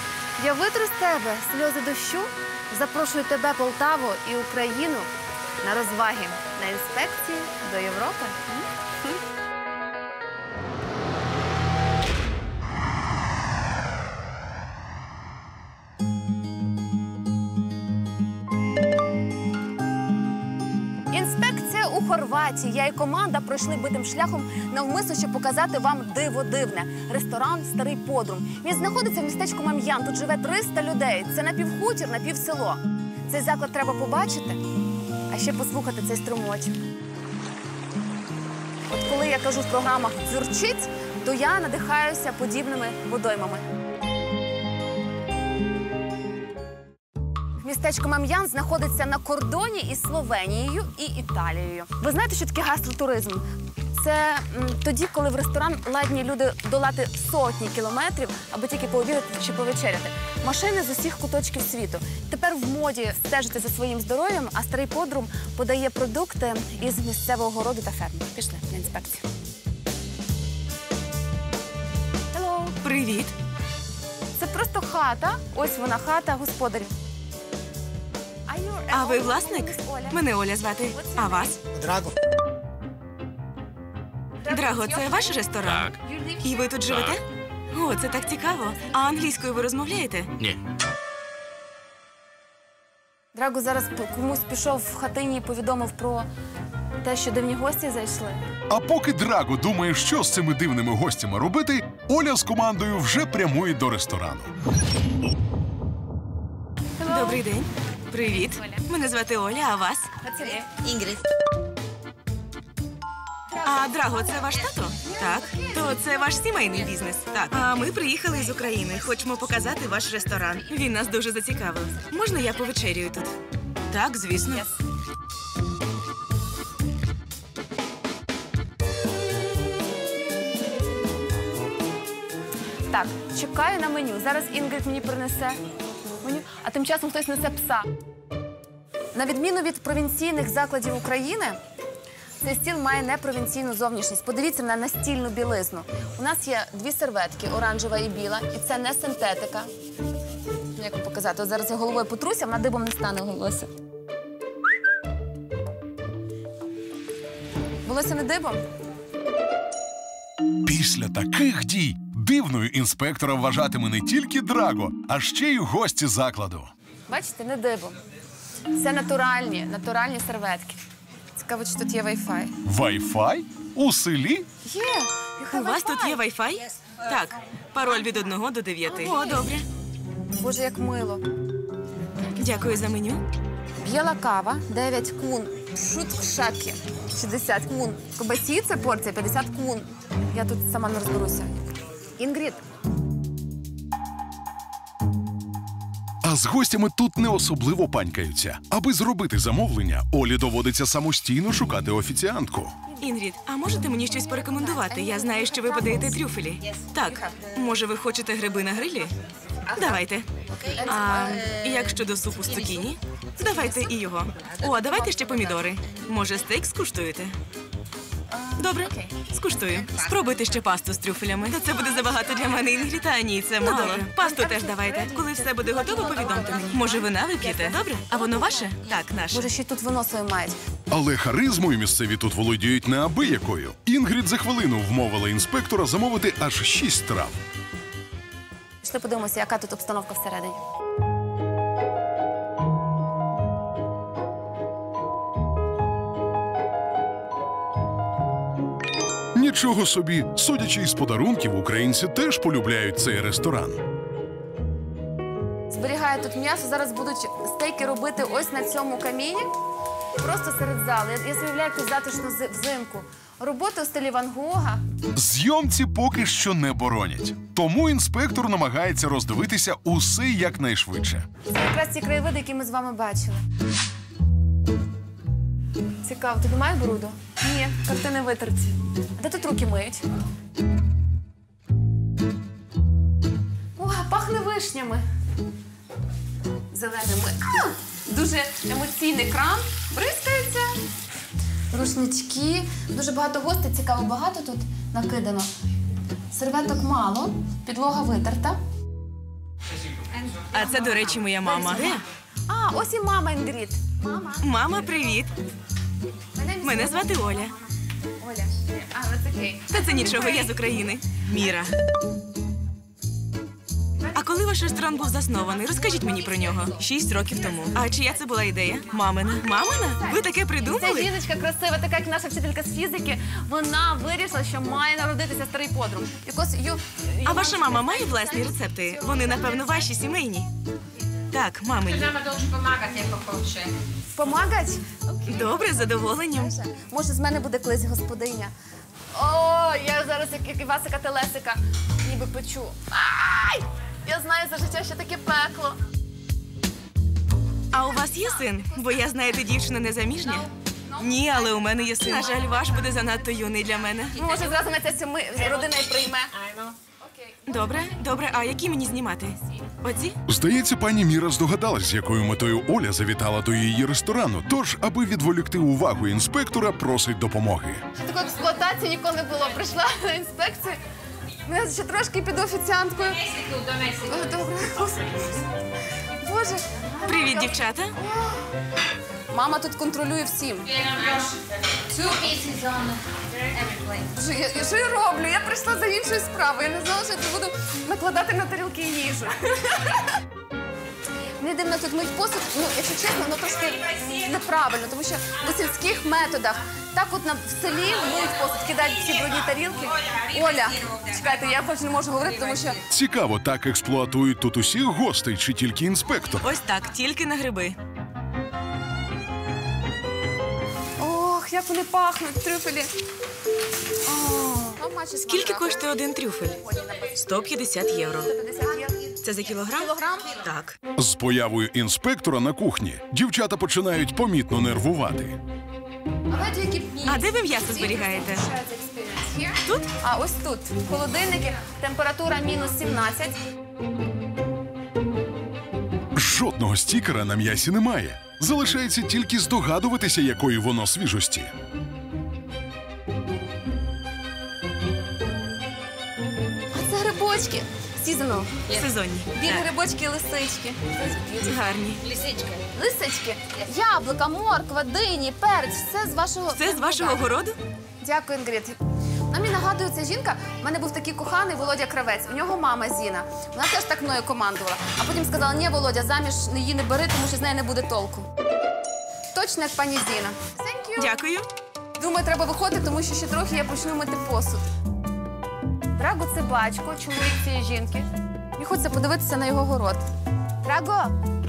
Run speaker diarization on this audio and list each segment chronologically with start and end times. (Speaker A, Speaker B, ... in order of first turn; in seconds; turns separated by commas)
Speaker A: 0.4-5.1, Speaker A: 5.6-9.2, Speaker A: 21.1-34.6, Speaker A: 35.3-36.7, Speaker A: 38.9-43.6, Speaker A: 47.6-69.2, Speaker A: 72.3-72.8, Speaker B: 72.8-73.3, Speaker A: 74.4-76.9, Speaker A: 78.5-80.2, Speaker B: 78.9-81.6, Speaker A: 80.9-81.6, Speaker A: 84.4-86.7, Speaker B: 84.5-90.3, Speaker A: 93.3-96.3, Speaker A: 97.0-98.4, Speaker C: 98.7-104.5, Speaker A: 107.0-107.5, Speaker B: 107.0-110.1, Speaker A: 108.2-108.9, Speaker A: 110.2-110.7, Speaker A: 113.5-116.4, Speaker B: 113.6-123.3, Speaker A: 118.4-120.6, Speaker B: 123.9-124.7, Speaker A: 124.5-124.8, Speaker A: 132.9-135.6, Speaker A: 136.2-137.9, Speaker A: 139.1-141.6, Speaker A: 142.4-149.7, Speaker A: 150.8-153.7, Speaker A: 157.8-158.6, Speaker C: 160.7-166.7, Speaker A: 167.1-168.0, Speaker A: 168.7-170.8, Speaker A: 171.3-172.5, Speaker C: 172.7-174.5, Speaker A: 174.7-176.2, Speaker B: 175.5-179.6, Speaker A: 178.8-179.5, Speaker A: 180.4-181.2, Speaker B: 182.4-183.2, Speaker A: 183.8-191.6, Speaker A: 192.2-192.6, Speaker C: 196.2-202.8, Speaker B: 203.0-209.1, Speaker A: 203.8-206.2, Speaker A: 209.7-210.0, Speaker B: 209.8-210.3, Speaker A: 210.6-211.5, Speaker B: 210.8-217.3, Speaker A: 214.6-215.5, Speaker A: 218.3-219.2, Speaker B: 218.6-229.5, Speaker A: 223.6-226.9, Speaker A: 229.3-230.6, Speaker C: 230.9-237.4, Speaker A: 238.8-240.6, Speaker C: 249.3-253.8, Speaker A: 255.7-259.5, Speaker A: 260.2-264.8, Speaker C: 265.2-271.3, Speaker A: 271.5-273.4, Speaker A: 276.0-280.0, Speaker A: 283.8-285.0, Speaker A: 286.7-290.8, Speaker A: 291.7-295.5, Speaker A: 296.3-298.6, Speaker B: 300.5-302.0, Speaker A: 301.1-304.9, Speaker B: 304.4-305.3, Speaker A: 306.4-307.6, Speaker B: 306.6-307.6, Speaker A: 308.2-310.6, Speaker B: 309.7-311.7, Speaker B: 314.1-321.1, Speaker A: 316.1-316.4, Speaker A: 319.4-330.0, Speaker B: 327.2-330.5, Speaker B: 331.3-332.5, Speaker D: 332.2-333.7, Speaker A: 334.1-338.5, Speaker B: 335.3-336.6, Speaker A: 339.1-345.8, Speaker B: 347.7-350.5, Speaker A: 348.0-349.5, Speaker A: 350.1-353.0, Speaker B: 351.0-354.5, Speaker A: 354.1-356.5, Speaker A: 357.0-357.7, Speaker B: 357.5-360.2, Speaker C: 360.3-367.8, Speaker A: 368.0-370.8, Speaker A: 371.5-375.5, Speaker A: 376.2-378.4, Speaker B: 377.1-377.9, Speaker A: 379.3-381.1, Speaker D: 382.1-383.0, Speaker A: 384.0-390.1, Speaker A: 391.4-402.8, Speaker C: 402.9-406.5, Speaker B: 406.4-407.8, Speaker A: 411.0-412.9, Speaker A: 414.1-415.9, Speaker B: 415.3-418.3, Speaker A: 416.6-417.3, Speaker A: 418.1-419.2, Speaker B: 419.2-420.8, Speaker A: 419.7-420.4, Speaker C: 421.0-425.4, Speaker A: 426.3-433.4, Speaker B: 427.1-428.4, Speaker B: 429.6-429.9, Speaker C: 436.2-441.5, Speaker A: 446.7-448.6, Speaker B: 448.7-449.7, Speaker A: 449.3-451.6, Speaker B: 451.5-452.2, Speaker A: 452.7-457.2, Speaker B: 456.6-457.6, Speaker A: 458.0-458.8, Speaker A: 459.3-468.3, Speaker A: 469.3-471.1, Speaker B: 471.0-471.5, Speaker A: 472.0-474.6, Speaker A: 476.0-480.0, Speaker A: 480.6-481.1